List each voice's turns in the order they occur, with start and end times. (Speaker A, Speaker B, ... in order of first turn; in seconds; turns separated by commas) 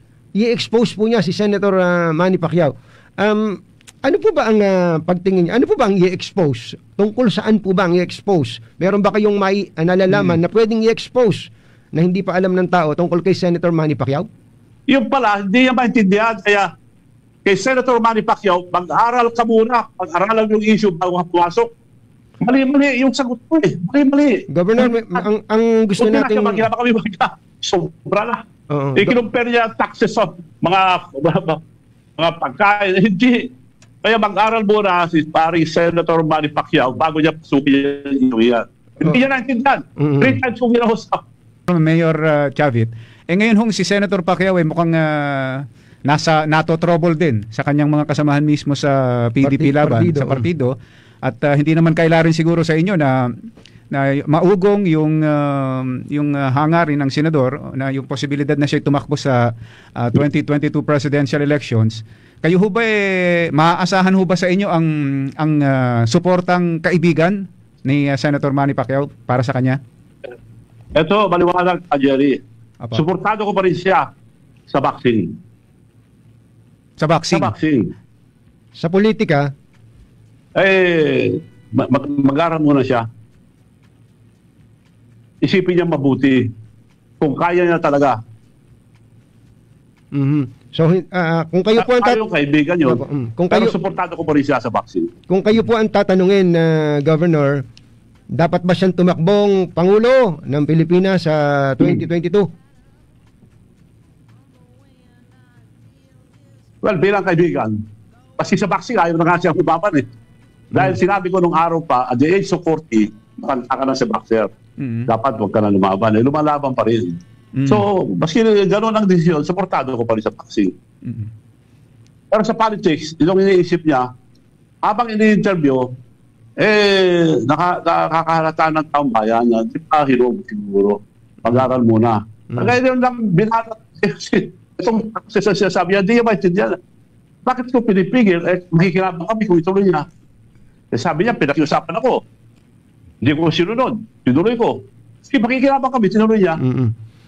Speaker A: 0.3-14.3, Speaker B: 14.9-16.7, Speaker B: 17.4-21.7, Speaker B: 22.4-25.2, Speaker A: 24.5-26.6, Speaker B: 26.0-28.4, Speaker A: 28.7-29.1, Speaker B: 28.9-31.6, Speaker B: 32.2-33.5, Speaker B: 34.0-41.2, Speaker A: 40.0-40.4, Speaker C: 41.7-53.3, Speaker A: 49.4-50.5, Speaker C: 53.9-69.8, Speaker B: 70.9-72.4, Speaker B: 72.9-74.0, Speaker B: 74.7-75.3, Speaker C: 77.0-77.5, Speaker B: 77.3-77.9, Speaker A: 78.7-79.5, Speaker B: 80.5-83.0, Speaker B: 85.4-86.5, Speaker B: 87.2-88.2, Speaker A: 90.1-92.2, Speaker B: 91.8-93.0, Speaker A: 92.8-93.7, Speaker B: 93.5-95.1, Speaker A: 95.3-97.6, Speaker A: 98.3-102.5, Speaker B: 106.8-107.7, Speaker B: 108.4-110.0, Speaker B: 110.7-114.5, Speaker C: 114.8-115.1, Speaker B: 115.1-117.2, Speaker C: 117.5-117.8, Speaker B: 117.7-120.7, Speaker B: 122.3-124.1, Speaker B: 124.8-125.9, Speaker B: 126.6-136.8, Speaker B: 137.4-140.0, Speaker B: 140.9-142.2, Speaker B: 143.2-146.6, Speaker A: 146.6-146.9